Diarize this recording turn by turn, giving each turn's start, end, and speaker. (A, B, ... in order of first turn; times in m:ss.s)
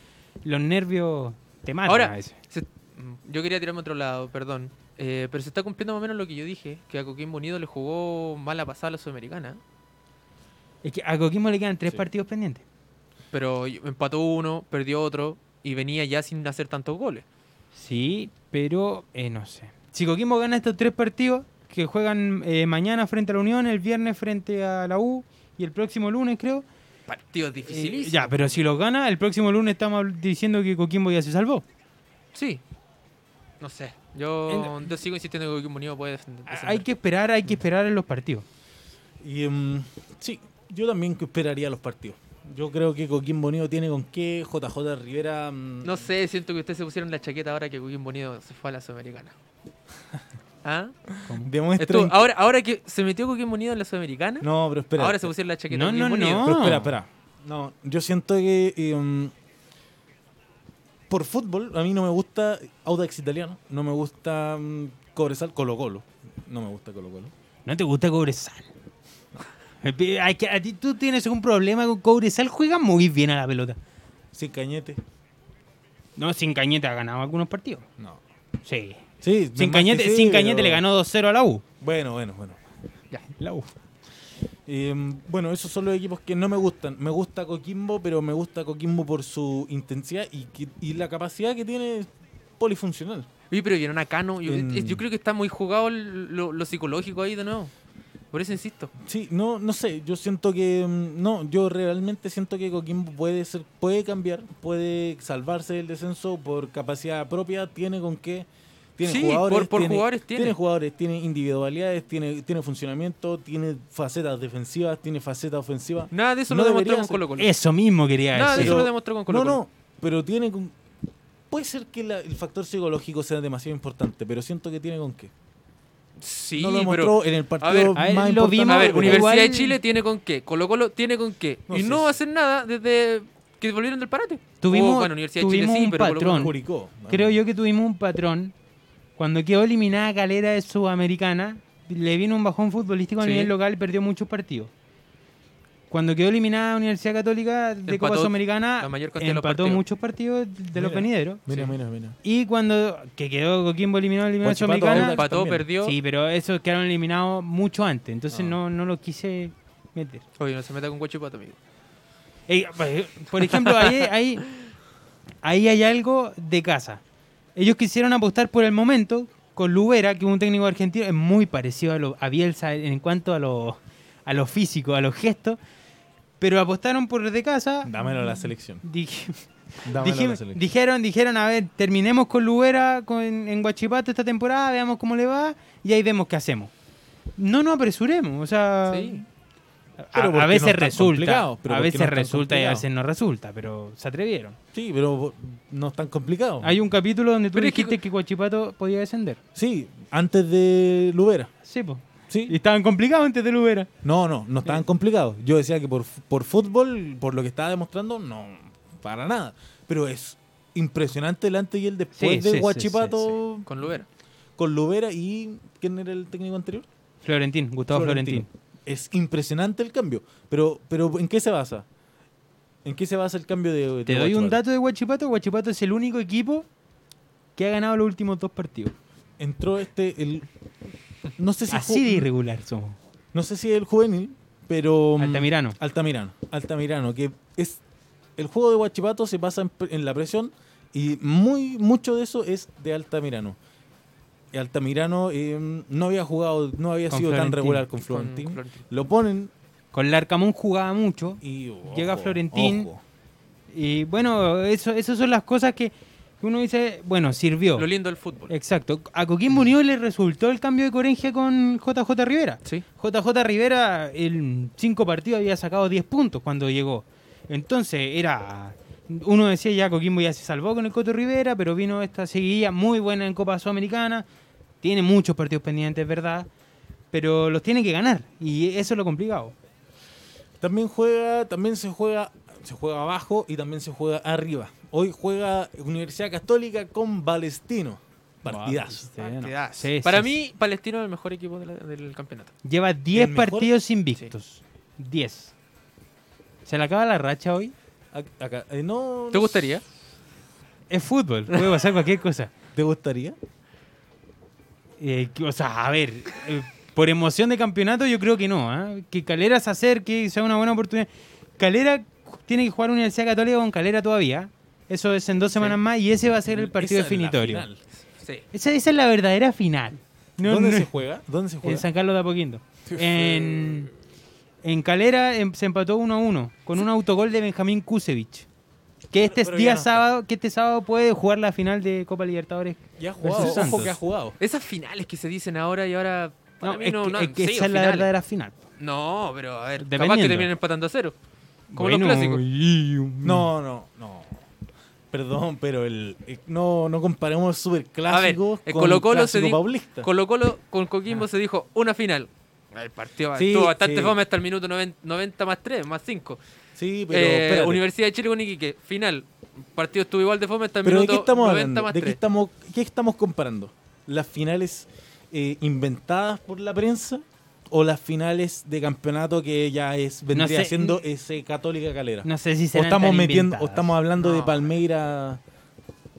0:00.4-0:02.4 A
0:01.9-0:09.6 B
0:10.8-0:12.6 A
0:13.3-0:17.2 B
0:17.7-0:26.6 A
0:27.1-0:28.6 B
0:27.7-0:31.6 A
0:32.3-0:32.6 B
0:33.6-0:36.8 B
0:34.5-0:34.7 A
0:36.5-0:38.4 A
0:39.2-0:46.1 C
0:45.8-0:49.3 B
0:50.6-0:51.2 B
0:51.4-0:52.2 C
0:51.8-0:56.5 B
0:54.4-0:55.3 C
0:55.7-0:56.9 A
0:56.4-0:59.3 C
1:01.1-1:07.3 C
1:07.7-1:08.7 A
1:09.8-1:13.8 A
1:14.3-1:15.0 C
1:16.2-1:17.8 A
1:18.6-1:19.0 A
1:19.2-1:20.8 C
1:19.6-1:21.6 A
1:21.8-1:22.6 C
1:23.3-1:23.7 A
1:24.6-1:33.3 C
1:33.5-1:37.7 B
1:34.4-1:35.0 C
1:38.3-1:38.9 B
1:39.0-1:57.2 C
1:49.0-1:50.6 B
1:56.1-1:57.5 B
1:57.4-1:58.8 A
1:58.3-1:59.6 B
1:58.5-2:00.8 C
2:01.5-2:05.3 C
2:06.2-2:08.1 B
2:06.6-2:09.3 C
2:08.0-2:09.8 A
2:08.6-2:16.5 B
2:11.7-2:12.2 C
2:14.6-2:16.5 A
2:16.2-2:17.4 C
2:17.1-2:18.5 A
2:19.2-2:24.7 A
2:23.2-2:23.5 B
2:25.9-2:31.5 A
2:27.9-2:29.8 B
2:30.7-2:32.2 C
2:32.2-2:35.2 A
2:34.4-2:35.6 C
2:34.8-2:36.0 B
2:35.8-2:40.2 A
2:38.3-2:38.6 C
2:40.4-2:41.6 B
2:42.5-2:44.5 A
2:43.5-2:44.0 B
2:45.4-2:47.0 A
2:47.6-2:55.6 A
2:56.4-3:06.7 A
2:57.8-2:58.8 C
2:59.8-3:00.6 C
3:07.4-3:09.2 A
3:08.9-3:09.2 B
3:10.0-3:14.6 A
3:10.1-3:12.8 C
3:14.7-3:16.7 C
3:16.6-3:19.4 A
3:17.5-3:18.0 B
3:19.5-3:21.5 C
3:21.6-3:23.9 A
3:22.3-3:22.5 C
3:24.0-3:33.7 C
3:32.1-3:33.3 A
3:33.7-3:34.0 B
3:34.6-3:36.8 C
3:37.2-3:38.5 A
3:37.9-3:41.8 C
3:42.8-3:44.6 C
3:44.0-3:46.7 A
3:47.6-3:48.9 A
3:49.4-3:50.5 C
3:51.4-3:52.3 C
3:51.7-3:53.0 A
3:53.3-3:57.8 C
3:55.2-3:55.8 A
3:58.4-4:03.6 C
4:04.5-4:09.5 C
4:07.1-4:07.8 A
4:08.0-4:08.8 B
4:09.9-4:12.9 A
4:11.4-4:13.0 C
4:13.7-4:17.9 A
4:17.8-4:18.5 B
4:18.5-4:34.2 A
4:34.8-4:36.5 A
4:37.1-4:39.5 A
4:40.6-4:49.1 C
4:48.4-4:50.3 A
4:49.2-4:52.5 B
4:52.6-4:55.5 A
4:53.1-4:53.7 C
4:56.6-4:57.7 A
4:58.1-4:59.7 C
4:59.3-4:59.8 B
5:00.9-5:02.5 A
5:02.7-5:03.4 C
5:05.0-5:17.6 A
5:16.4-5:17.8 C
5:18.1-5:18.4 B
5:18.5-5:20.9 A
5:20.4-5:21.8 C
5:21.6-5:23.9 A
5:22.8-5:23.9 C
5:24.6-5:28.5 A
5:29.1-5:34.0 A
5:29.1-5:30.0 C
5:33.0-5:34.4 C
5:33.3-5:38.1 B
5:36.6-5:38.6 A
5:38.8-5:41.1 B
5:39.8-5:40.5 A
5:41.7-5:43.5 A
5:41.8-5:42.4 B
5:43.2-5:44.4 C
5:45.1-5:50.1 C
5:48.1-5:56.4 B
5:53.3-5:54.2 C
5:56.8-5:57.8 C
5:57.1-6:02.2 B
6:00.8-6:15.4 C
6:10.3-6:11.0 A
6:12.2-6:13.9 A
6:14.2-6:14.7 B